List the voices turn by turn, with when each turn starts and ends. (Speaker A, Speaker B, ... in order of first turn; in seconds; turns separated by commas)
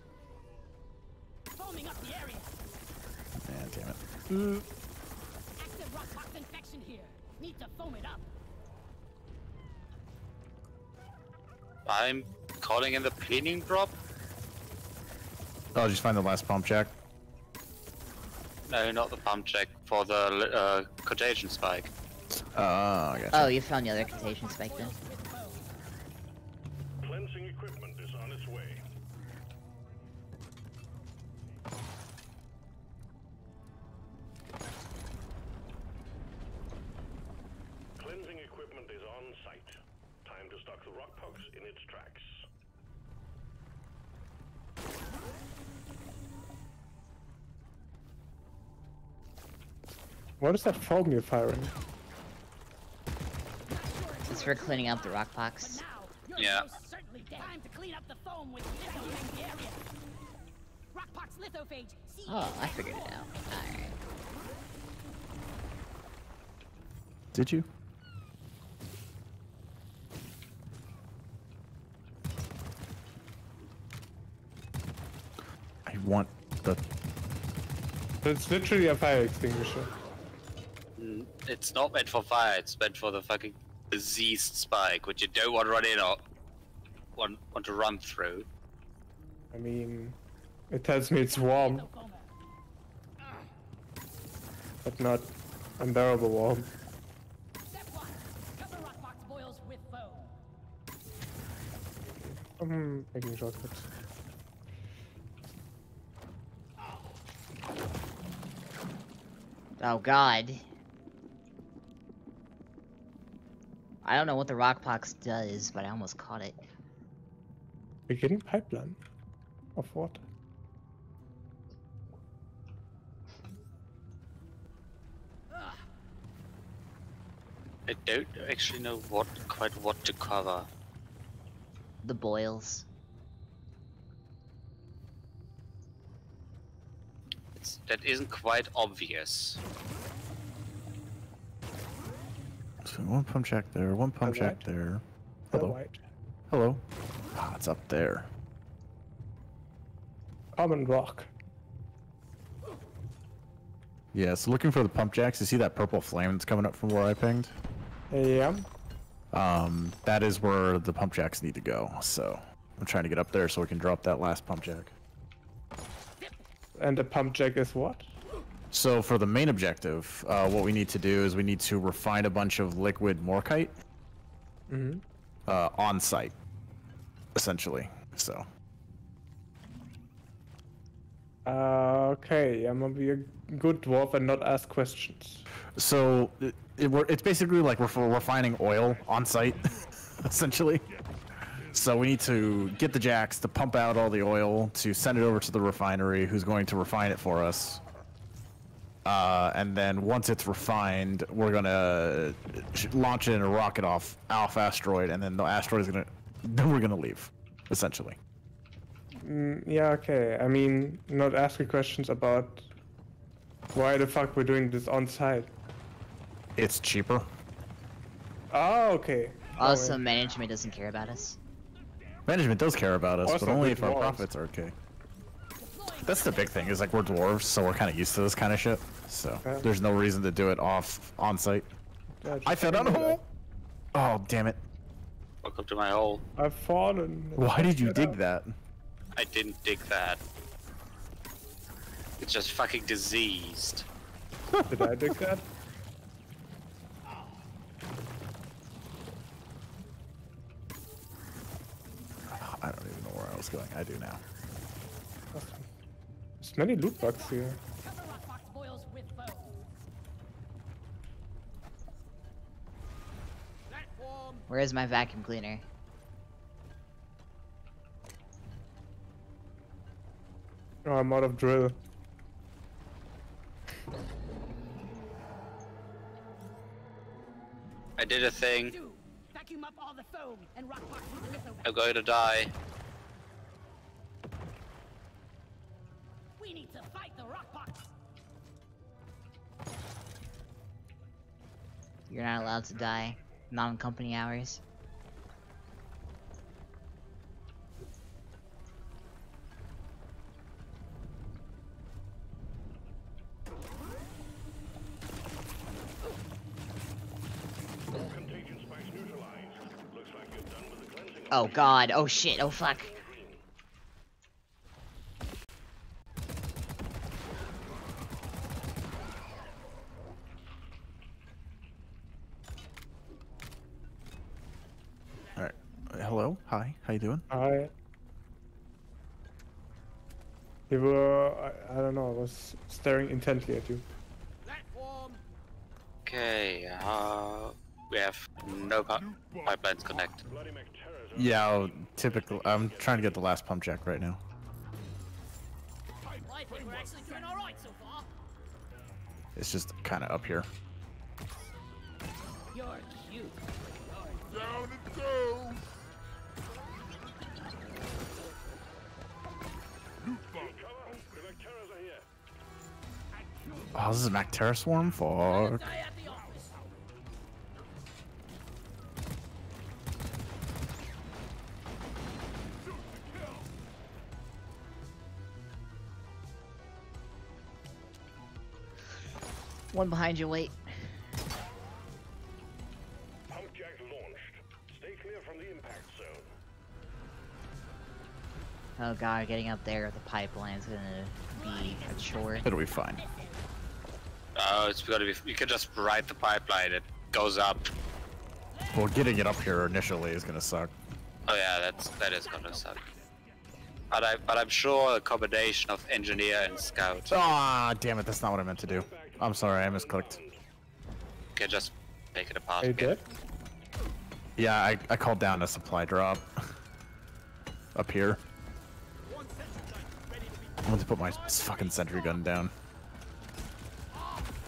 Speaker A: 1.5-2.6, Speaker B: 3.5-4.7, Speaker A: 5.6-8.2, Speaker C: 11.9-13.9, Speaker B: 15.7-16.9, Speaker C: 18.7-21.9, Speaker B: 22.3-23.5, Speaker D: 23.3-24.9, Speaker A: 23.9-25.7, Speaker E: 27.0-28.8, Speaker E: 38.0-42.4, Speaker F: 50.4-51.7, Speaker A: 53.7-59.8, Speaker D: 54.3-55.8, Speaker C: 56.4-56.7, Speaker A: 60.9-63.8, Speaker D: 62.3-64.0, Speaker B: 67.3-67.7, Speaker B: 75.9-76.8, Speaker F: 78.2-79.9, Speaker C: 81.0-86.2, Speaker C: 87.2-88.5, Speaker F: 89.5-90.2, Speaker F: 90.7-91.9, Speaker A: 91.3-92.3, Speaker F: 94.8-96.7, Speaker A: 97.7-100.3, Speaker F: 102.6-103.9, Speaker D: 109.8-110.6, Speaker D: 114.0-116.6, Speaker F: 118.1-119.0, Speaker F: 119.8-120.2, Speaker C: 127.9-130.7, Speaker D: 132.0-132.9, Speaker C: 137.5-139.6, Speaker B: 142.8-145.8, Speaker F: 144.2-144.7, Speaker F: 145.5-146.0, Speaker B: 146.5-146.8, Speaker B: 147.3-148.3, Speaker F: 150.6-151.3, Speaker B: 154.1-157.6, Speaker F: 158.1-158.7, Speaker B: 159.3-164.9, Speaker F: 166.8-168.1, Speaker B: 168.7-173.8, Speaker F: 174.7-175.0, Speaker B: 175.5-176.3, Speaker B: 177.3-178.5, Speaker F: 181.5-185.4, Speaker B: 185.8-190.8, Speaker G: 188.9-190.1, Speaker G: 190.7-192.3, Speaker B: 191.7-197.8, Speaker B: 199.1-208.2, Speaker F: 209.2-212.7, Speaker F: 213.7-215.5, Speaker B: 216.6-217.3, Speaker F: 218.5-220.0, Speaker D: 219.6-221.4, Speaker B: 222.3-224.8, Speaker F: 223.2-224.3, Speaker A: 225.6-227.0, Speaker B: 226.1-231.7, Speaker F: 229.4-229.7, Speaker F: 232.2-233.3, Speaker B: 232.4-233.2, Speaker B: 233.9-234.6, Speaker C: 235.4-236.2, Speaker F: 236.4-238.2, Speaker B: 237.4-238.6, Speaker C: 239.2-240.2, Speaker C: 242.2-243.9, Speaker B: 244.5-244.9, Speaker F: 244.7-245.4, Speaker B: 252.3-254.2, Speaker F: 255.3-255.7, Speaker F: 256.4-257.6, Speaker A: 257.0-259.7, Speaker A: 263.7-264.4, Speaker D: 264.5-265.6, Speaker F: 270.9-271.8, Speaker C: 278.0-278.8, Speaker A: 278.7-281.7, Speaker C: 281.6-282.5, Speaker A: 286.4-287.9, Speaker D: 292.1-294.6, Speaker E: 307.9-313.4, Speaker D: 311.3-312.9, Speaker B: 325.4-327.3, Speaker F: 327.3-327.7, Speaker F: 330.7-333.9, Speaker A: 334.5-335.2, Speaker C: 336.1-340.2, Speaker G: 338.9-340.2, Speaker E: 340.3-343.4, Speaker B: 341.1-344.2, Speaker G: 346.0-347.4, Speaker A: 346.2-348.1, Speaker B: 349.4-350.5, Speaker A: 352.5-354.2, Speaker G: 354.3-355.6, Speaker G: 360.0-361.2, Speaker E: 360.3-362.1, Speaker A: 363.1-364.0, Speaker G: 363.5-364.0, Speaker B: 363.7-365.6, Speaker G: 364.7-365.2, Speaker A: 365.2-366.6, Speaker G: 365.9-366.8, Speaker G: 372.6-373.5, Speaker D: 379.7-380.6, Speaker E: 383.3-386.3, Speaker D: 388.8-392.5, Speaker A: 391.3-393.5, Speaker B: 392.4-393.0, Speaker C: 394.4-397.7, Speaker A: 398.6-399.5, Speaker B: 398.7-400.7, Speaker C: 401.3-402.8, Speaker G: 401.8-403.1, Speaker A: 402.3-403.0, Speaker C: 403.9-407.2, Speaker B: 407.1-410.2, Speaker E: 408.6-410.4, Speaker C: 411.4-413.0, Speaker F: 412.6-413.0, Speaker B: 414.4-416.5, Speaker B: 417.8-418.2, Speaker G: 419.1-420.3, Speaker A: 419.1-422.2, Speaker B: 420.6-422.5